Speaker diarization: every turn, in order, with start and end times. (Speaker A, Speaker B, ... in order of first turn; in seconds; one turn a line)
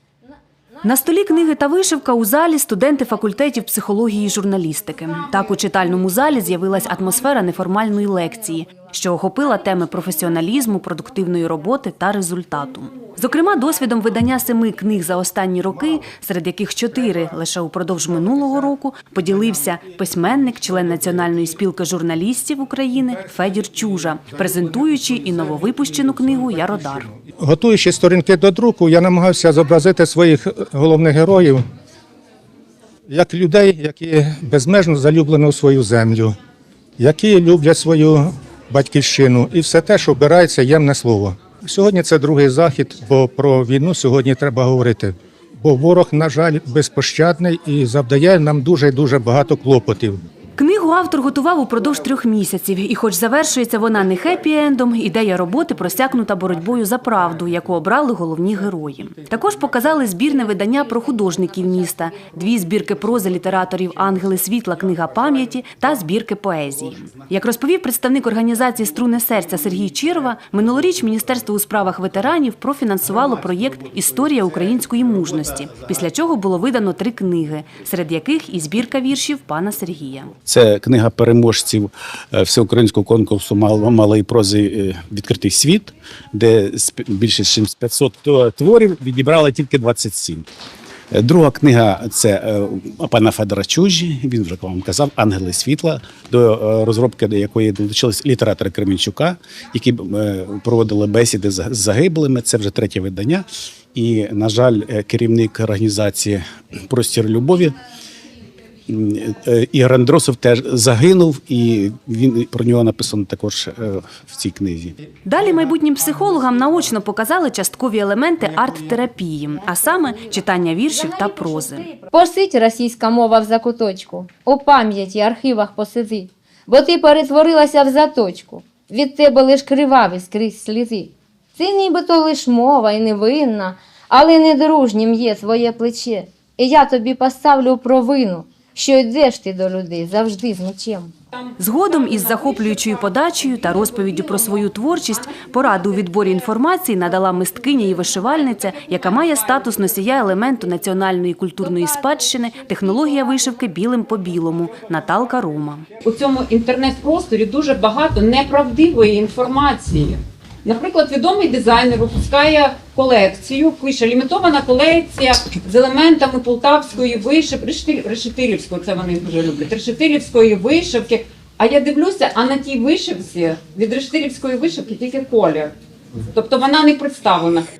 Speaker A: 0.8-27.1
Speaker B: 27.4-31.6
Speaker B: 33.1-36.4
Speaker B: 37.0-50.2
Speaker A: 50.6-80.3
Speaker C: 80.5-90.5
Speaker C: 91.1-107.7
Speaker C: 108.9-115.0
Speaker A: 115.2-121.9
Speaker D: 121.0-141.1
Speaker E: 141.3-146.2
Speaker A: 141.6-155.8
Speaker E: 147.9-150.0
Speaker E: 156.0-175.7
Speaker E: 176.3-177.7